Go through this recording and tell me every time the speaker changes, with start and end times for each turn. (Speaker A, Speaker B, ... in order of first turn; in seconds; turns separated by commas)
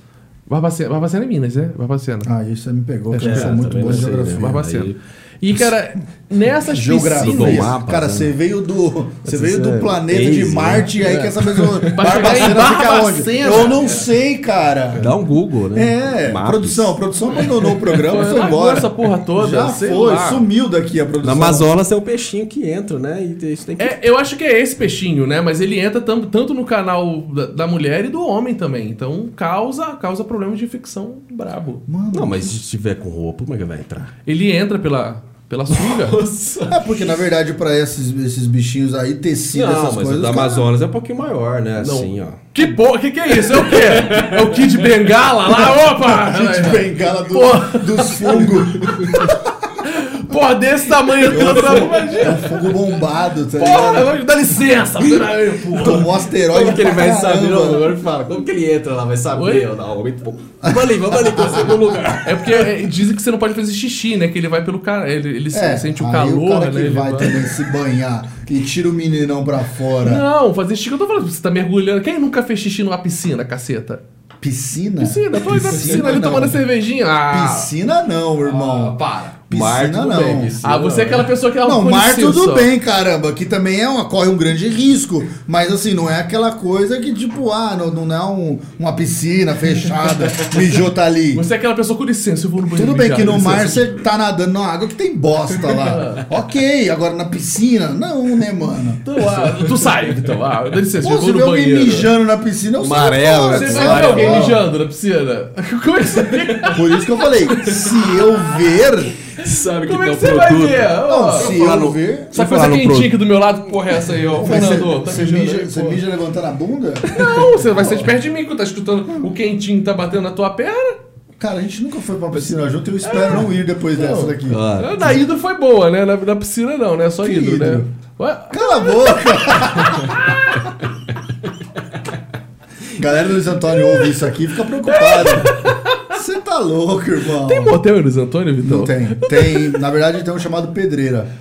Speaker A: 0.5-2.3, Speaker B: 2.2-4.6, Speaker A: 3.1-7.7, Speaker C: 3.2-5.0, Speaker B: 6.6-15.1, Speaker C: 7.2-8.3, Speaker C: 9.2-12.4, Speaker A: 11.0-11.3, Speaker A: 11.8-14.1, Speaker C: 15.0-16.9, Speaker B: 15.7-21.7, Speaker C: 17.5-18.1, Speaker A: 18.1-20.4, Speaker C: 21.2-24.0, Speaker A: 23.8-31.8, Speaker B: 31.9-32.5, Speaker C: 32.1-34.1, Speaker A: 34.2-36.2, Speaker C: 35.7-36.9, Speaker B: 36.7-40.7, Speaker C: 39.5-42.5, Speaker A: 41.8-52.7, Speaker C: 43.3-44.8, Speaker B: 46.0-49.4, Speaker C: 48.8-49.1, Speaker B: 51.2-54.1, Speaker C: 51.3-52.1, Speaker A: 53.6-56.1, Speaker B: 55.7-57.9, Speaker C: 56.5-62.7, Speaker A: 59.3-59.7, Speaker B: 60.6-62.1, Speaker A: 62.2-67.4, Speaker B: 65.5-70.2, Speaker A: 70.0-74.0, Speaker B: 74.4-76.6, Speaker A: 75.0-77.7, Speaker B: 77.3-79.0, Speaker A: 78.4-79.4, Speaker B: 79.5-80.5, Speaker C: 79.5-81.3, Speaker A: 80.6-82.7, Speaker B: 81.6-91.4, Speaker A: 91.3-93.9, Speaker B: 92.7-99.0, Speaker A: 95.6-96.3, Speaker A: 99.0-102.1, Speaker B: 101.0-104.6, Speaker C: 102.8-104.6, Speaker A: 103.4-108.2, Speaker C: 106.3-106.7, Speaker B: 106.7-109.1, Speaker C: 109.3-113.2, Speaker A: 109.8-111.5, Speaker B: 111.0-112.3, Speaker A: 112.3-116.0, Speaker C: 113.9-114.4, Speaker B: 114.4-117.1, Speaker A: 117.0-121.0, Speaker B: 117.6-118.1, Speaker B: 121.4-124.6, Speaker A: 123.0-130.7, Speaker C: 124.5-125.1, Speaker B: 127.2-127.9, Speaker B: 128.5-130.3, Speaker B: 132.9-137.8, Speaker A: 134.8-136.1, Speaker A: 137.3-139.8, Speaker B: 138.6-141.3